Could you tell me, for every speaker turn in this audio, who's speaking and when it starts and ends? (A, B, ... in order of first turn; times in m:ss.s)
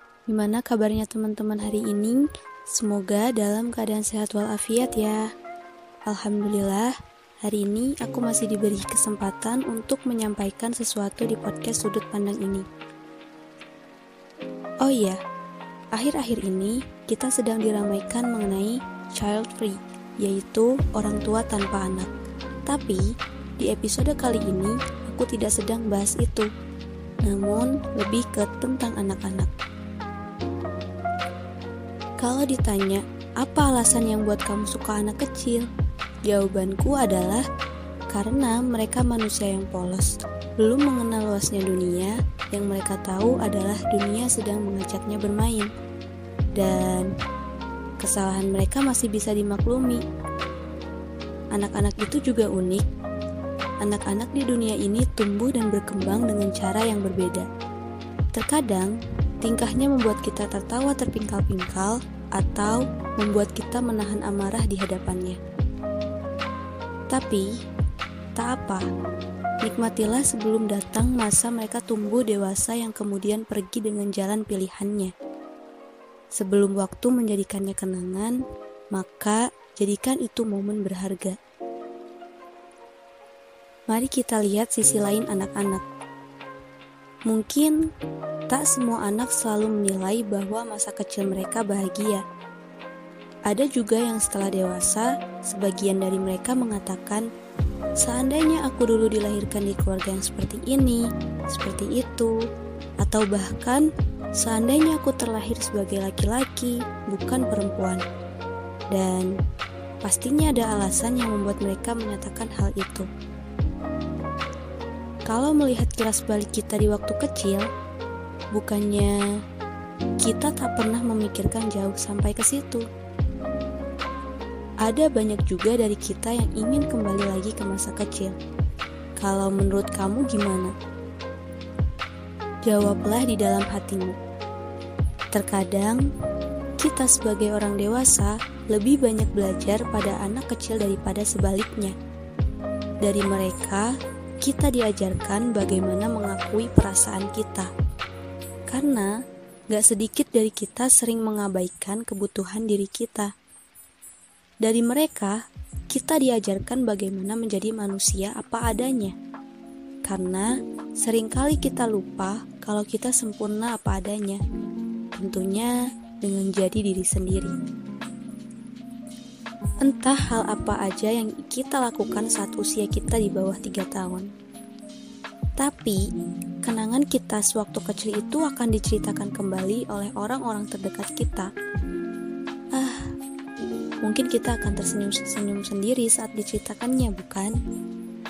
0:00.3-0:05.3 A
0:06.1-0:12.7 A
0:14.8-0:15.2 A
0:15.9-0:22.1 A
0:22.7-0:23.1 A
0:23.6-0:26.5 A
0:27.2-0:29.5 A
0:32.2-0:35.7 A
0:36.3-0:37.4 A
0:38.1-0:45.7 A
0:46.6-0:47.1 A
0:48.0-0:50.0 A
0:51.5-0:52.8 A
0:53.8-0:57.5 A
0:58.3-1:05.4 A
1:07.1-1:07.5 A
1:08.4-1:08.9 A
1:09.6-1:15.1 A
1:16.4-1:18.4 A
1:18.9-1:21.4 A
1:23.9-1:25.8 A
1:27.3-1:27.7 A
1:28.5-1:32.2 A
1:33.5-1:37.3 A
1:38.0-1:42.3 A
1:43.0-1:43.9 A
1:44.4-1:48.0 A
1:48.9-1:49.3 A
1:50.0-1:53.1 A
1:55.3-1:57.7 A
1:58.5-1:59.2 A
2:00.2-2:02.8 A
2:04.8-2:08.4 A
2:09.2-2:10.7 A
2:12.6-2:14.2 A
2:15.3-2:16.0 A
2:16.8-2:21.9 A
2:23.0-2:27.7 A
2:28.7-2:29.1 A
2:29.7-2:33.3 A
2:34.6-2:35.4 A
2:35.9-2:39.1 A
2:40.0-2:44.4 A
2:45.2-2:47.5 A
2:49.8-2:54.3 A
2:55.6-2:56.0 A
2:56.6-3:01.5 A
3:02.8-3:03.0 A
3:04.0-3:07.5 A